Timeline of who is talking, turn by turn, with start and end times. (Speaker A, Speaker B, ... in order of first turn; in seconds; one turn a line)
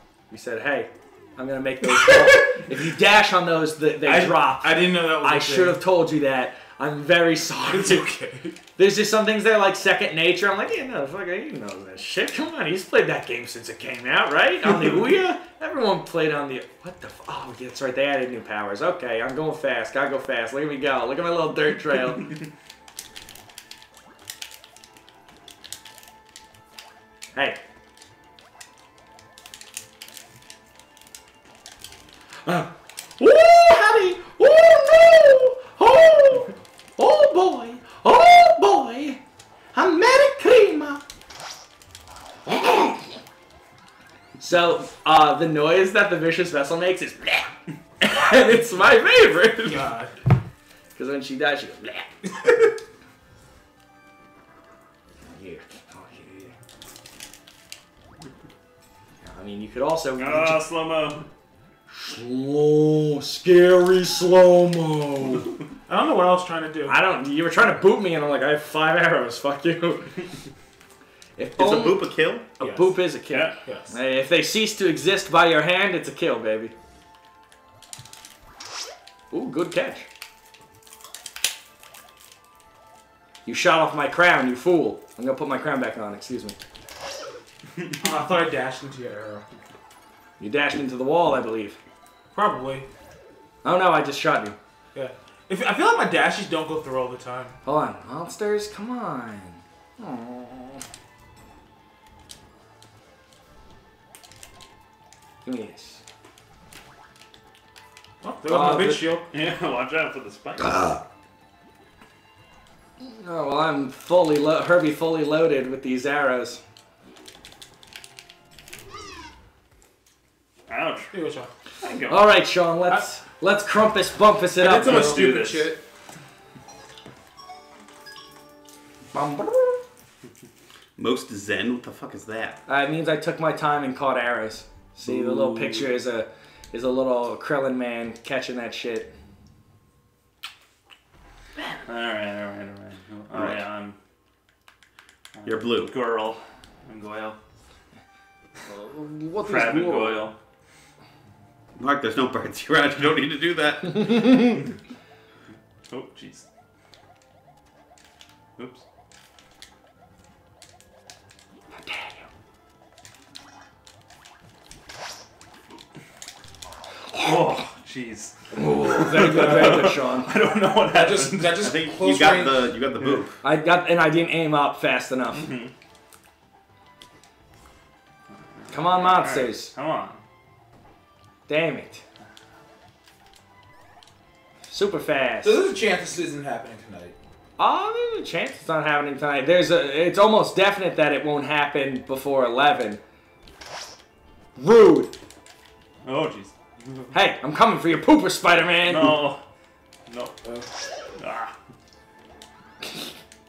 Speaker A: 0.3-8.1
Speaker B: 1.8-2.6
Speaker B: 4.0-5.8
Speaker B: 7.7-8.6
Speaker A: 8.8-22.3
Speaker A: 27.3-27.6
Speaker A: 32.4-39.2
Speaker A: 39.7-41.0
Speaker A: 42.5-43.2
Speaker A: 44.4-49.8
Speaker B: 49.6-50.1
Speaker A: 50.9-52.1
Speaker A: 55.2-56.5
Speaker A: 59.2-60.6
Speaker C: 60.2-61.3
Speaker A: 61.9-65.5
Speaker B: 65.9-67.0
Speaker A: 66.9-70.2
Speaker A: 71.4-72.0
Speaker D: 71.6-72.5
Speaker A: 72.6-76.7
Speaker B: 72.6-73.0
Speaker C: 73.3-73.5
Speaker B: 73.6-73.9
Speaker A: 79.3-80.1
Speaker A: 83.4-86.6
Speaker B: 88.0-89.5
Speaker A: 90.4-91.8
Speaker B: 92.3-92.8
Speaker A: 93.6-94.5
Speaker B: 94.9-97.5
Speaker A: 97.6-100.8
Speaker A: 105.4-106.0
Speaker B: 108.2-109.3
Speaker A: 108.5-109.2
Speaker C: 109.3-110.9
Speaker A: 110.6-111.0
Speaker A: 113.0-116.6
Speaker C: 120.7-121.1
Speaker B: 121.1-121.5
Speaker C: 121.8-122.3
Speaker A: 122.1-125.2
Speaker B: 124.6-125.8
Speaker C: 124.7-125.7
Speaker A: 129.1-129.8
Speaker D: 131.0-132.6
Speaker A: 132.7-139.1
Speaker D: 135.1-135.9
Speaker C: 141.8-143.9
Speaker D: 143.3-143.6
Speaker C: 145.3-147.4
Speaker D: 145.4-145.9
Speaker A: 148.7-150.3
Speaker C: 149.4-150.3
Speaker D: 151.8-154.4
Speaker C: 155.9-156.5
Speaker C: 158.6-158.8
Speaker A: 161.8-162.2
Speaker C: 167.1-171.7
Speaker A: 168.5-170.3
Speaker B: 170.9-172.7
Speaker D: 171.6-173.4
Speaker A: 173.4-175.5
Speaker C: 175.3-175.7
Speaker C: 178.7-180.2
Speaker A: 178.7-179.7
Speaker A: 181.5-182.0
Speaker A: 184.7-185.6
Speaker B: 185.4-187.1
Speaker A: 187.6-193.0
Speaker A: 194.6-195.2
Speaker C: 196.0-197.1
Speaker A: 197.1-199.2
Speaker C: 198.8-199.4
Speaker C: 200.1-200.4
Speaker C: 201.2-201.5